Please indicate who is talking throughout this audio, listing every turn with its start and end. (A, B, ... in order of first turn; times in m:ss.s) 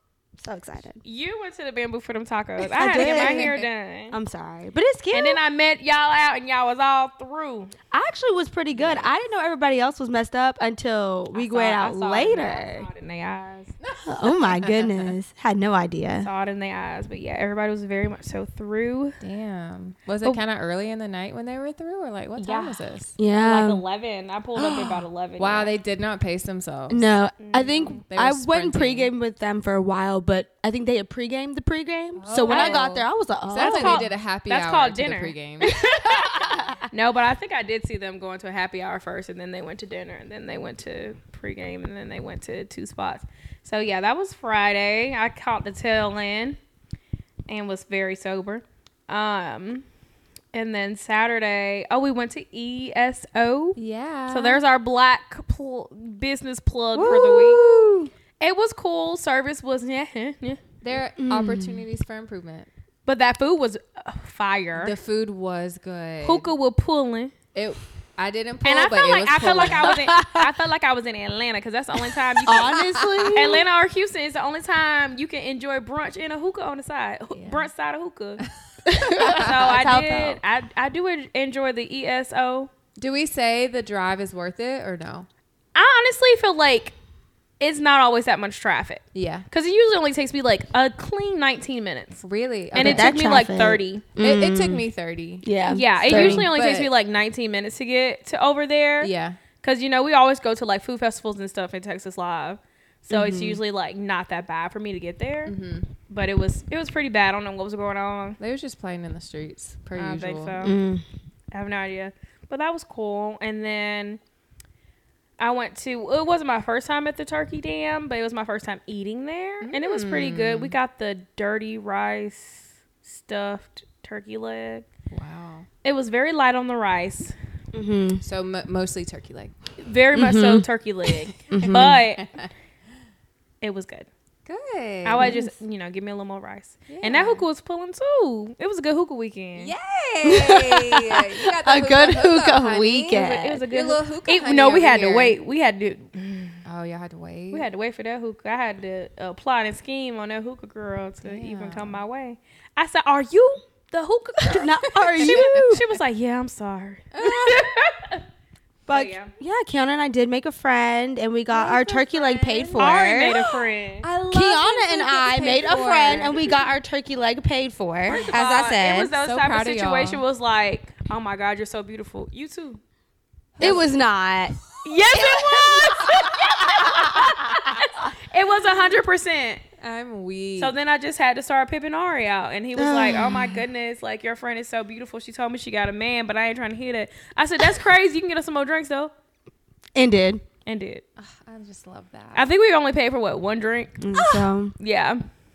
0:00.4-0:01.0 A
0:01.0-0:04.2 B
0:02.7-0:03.6 A
0:02.9-0:03.6 C
0:04.1-0:05.4 A
0:05.1-0:07.7 B
0:07.9-0:12.9 A
0:08.8-0:09.1 C
0:11.3-0:13.7 B
0:13.8-0:15.2 C
0:14.0-0:16.3 A
0:16.2-0:19.2 B
0:19.2-0:23.2 C
0:22.4-0:22.8 B
0:23.2-0:23.8 A
0:23.4-0:25.7 B
0:24.6-0:27.1 C
0:26.9-0:34.1 A
0:27.4-0:28.0 B
0:28.0-0:29.1 C
0:32.2-0:35.8 C
0:32.5-0:32.8 B
0:33.6-0:46.6 B
0:35.8-0:36.7 A
0:36.5-0:36.7 C
0:47.5-0:49.8 B
0:50.5-0:53.8 B
0:53.8-0:54.6 C
0:54.3-0:57.6 B
0:56.9-0:58.1 A
0:58.4-1:00.6 B
1:00.8-1:02.7 C
1:01.2-1:01.8 A
1:03.0-1:04.9 B
1:04.8-1:06.5 C
1:06.2-1:07.3 B
1:07.5-1:10.0 C
1:08.6-1:12.8 B
1:09.9-1:10.4 A
1:12.5-1:13.6 A
1:12.7-1:13.5 C
1:13.3-1:18.4 B
1:17.3-1:17.7 C
1:18.9-1:19.7 C
1:18.9-1:20.4 A
1:19.2-1:22.7 B
1:23.0-1:25.3 C
1:25.7-1:26.9 B
1:27.6-1:32.2 B
1:29.1-1:29.5 C
1:32.2-1:33.2 C
1:32.7-1:34.0 B
1:32.8-1:34.8 A
1:34.2-1:35.4 C
1:35.4-1:36.5 A
1:35.7-1:45.5 B
1:36.0-1:36.9 C
1:39.0-1:39.4 C
1:43.1-1:43.6 A
1:45.4-1:45.9 C
1:46.1-1:48.4 B
1:48.4-1:50.7 C
1:49.9-1:50.8 B
1:50.6-1:51.0 A
1:51.5-1:54.2 B
1:55.4-2:04.8 B
1:59.6-2:00.8 C
2:05.1-2:05.7 C
2:05.8-2:07.3 B
2:07.7-2:08.2 A
2:08.2-2:09.5 C
2:09.8-2:12.3 B
2:10.1-2:10.6 A
2:11.5-2:12.5 C
2:11.5-2:12.0 A
2:13.6-2:14.1 B
2:14.4-2:15.4 C
2:15.0-2:19.7 B
2:15.2-2:15.5 A
2:16.9-2:17.4 C
2:19.6-2:25.4 C
2:20.2-2:23.6 A
2:23.1-2:26.6 B
2:26.6-2:27.7 C
2:27.5-2:38.2 B
2:31.2-2:32.0 C
2:34.5-2:35.8 A
2:35.0-2:35.5 C
2:37.1-2:37.8 C
2:38.9-2:39.3 B
2:38.9-2:43.5 A
2:41.5-2:43.5 C
2:42.8-2:44.1 B
2:44.0-2:46.5 C
2:44.3-2:49.1 A
2:45.6-2:46.5 B
2:48.1-2:52.8 B
2:48.1-2:48.4 C
2:49.1-2:50.2 C
2:53.6-2:54.0 C
2:53.6-2:54.6 A
2:54.8-2:59.6 B
2:55.1-2:57.5 A
2:59.8-3:00.8 C
3:00.6-3:09.1 B
3:02.7-3:03.6 A
3:09.9-3:10.4 A
3:10.6-3:11.0 B
3:11.2-3:12.5 C
3:12.3-3:14.2 B
3:14.0-3:14.7 A
3:14.8-3:15.2 B